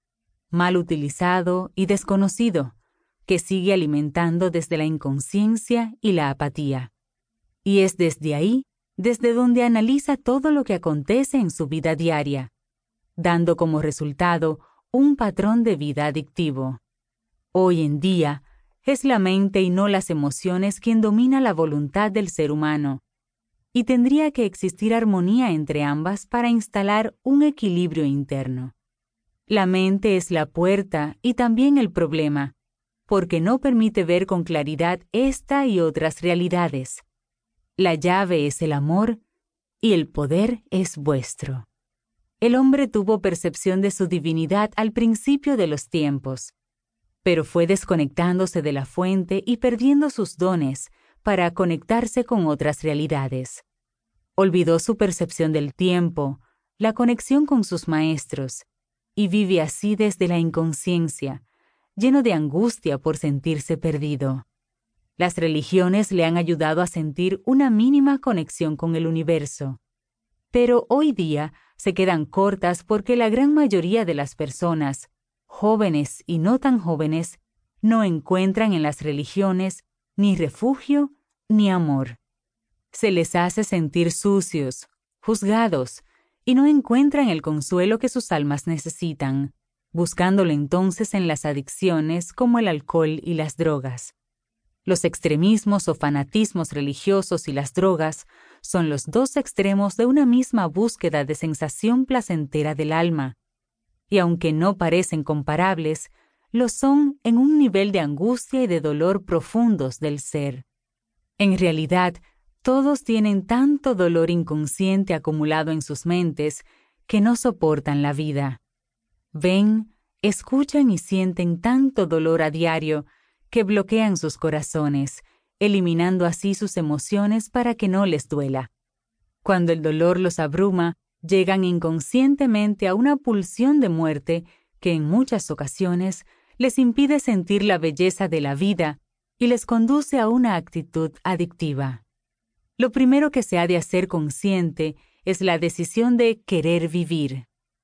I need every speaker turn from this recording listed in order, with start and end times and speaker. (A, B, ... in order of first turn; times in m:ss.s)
0:00.5-0:02.7 A
0:03.2-0:06.9 A
0:07.6-0:12.5 A
0:13.2-0:16.8 A
0:17.5-0:23.0 A
0:23.7-0:28.7 A
0:29.5-0:32.5 A
0:33.1-0:37.0 A
0:37.8-0:39.2 A
0:39.8-0:41.7 A
0:42.4-0:46.5 A
0:47.2-0:53.6 A
0:54.4-1:01.4 A
1:02.0-1:04.4 A
1:05.2-1:09.8 A
1:10.5-1:22.2 A
1:22.9-1:34.1 A
1:34.8-1:43.4 A
1:44.1-1:50.6 A
1:51.4-1:58.6 A
1:59.3-2:08.7 A
2:09.4-2:22.0 A
2:22.8-2:27.5 A